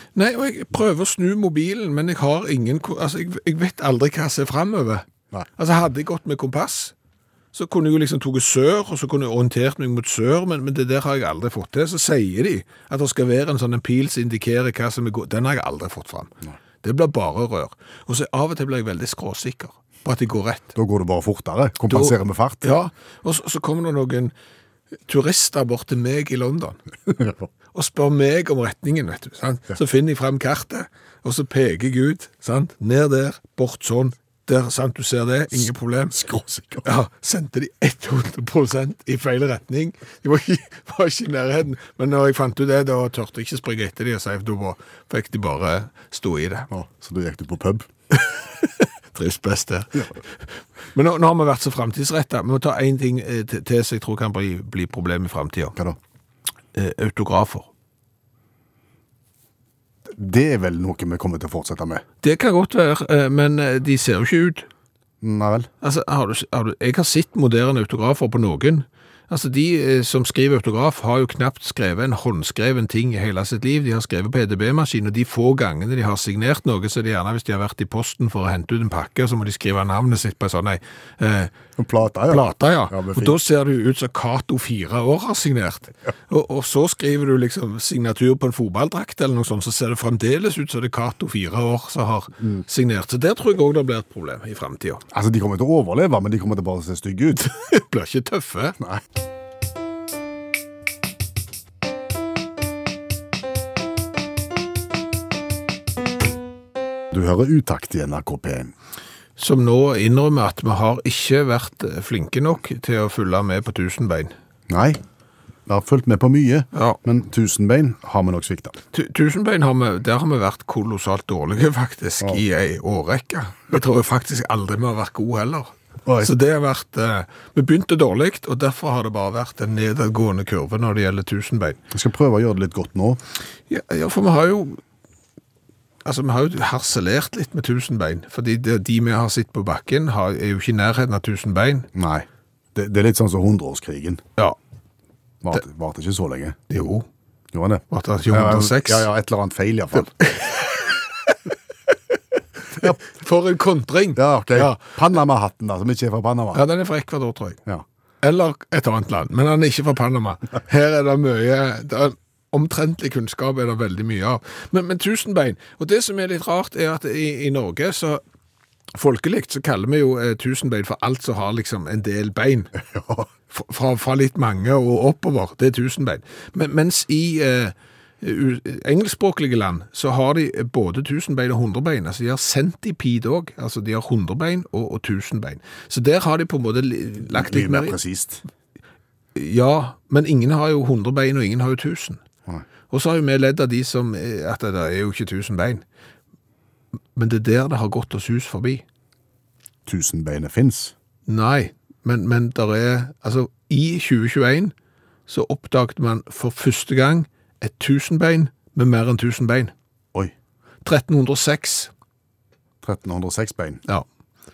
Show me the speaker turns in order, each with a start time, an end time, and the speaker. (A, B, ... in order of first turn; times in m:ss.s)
0:00.2-0:05.0 A
0:05.6-0:06.9 A
0:07.5-0:16.3 A
0:16.8-0:20.7 A
0:20.8-0:22.7 B
0:21.9-0:24.3 A
0:25.1-0:26.8 A
0:27.1-0:27.5 B
0:27.7-0:36.2 A
0:35.5-0:36.9 B
0:36.8-0:46.7 A
0:46.7-0:47.9 B
0:48.1-0:55.8 A
0:56.7-0:57.7 A
1:00.1-1:02.0 B
1:02.2-1:04.7 A
1:05.2-1:05.7 B
1:05.8-1:21.5 A
1:21.8-1:23.4 B
1:22.3-1:35.0 A
1:35.1-1:37.5 B
1:37.4-1:38.8 A
1:47.1-1:48.7 B
1:49.4-1:54.3 A
1:54.7-1:55.0 B
1:55.7-1:58.8 B
1:58.9-2:11.8 A
2:06.1-2:06.3 B
2:11.9-2:13.2 B
2:13.7-2:14.8 A
2:16.0-2:21.9 A
2:22.0-2:24.2 B
2:25.4-2:26.6 B
2:26.7-2:27.1 A
2:27.5-2:30.1 B
2:27.9-2:29.1 A
2:30.0-2:31.4 A
2:32.8-2:35.0 A
2:34.2-2:36.6 B
2:36.5-2:37.6 A
2:38.2-2:48.2 A
2:48.9-2:52.7 A
2:52.8-2:53.3 B
2:53.5-3:08.0 A
3:07.3-3:08.4 B
3:09.4-3:12.2 A
3:12.9-3:15.8 A
3:17.2-3:18.8 A
3:19.9-3:20.9 B
3:21.3-3:24.7 A
3:25.3-3:29.7 A
3:30.8-3:31.9 A
3:32.8-3:33.8 B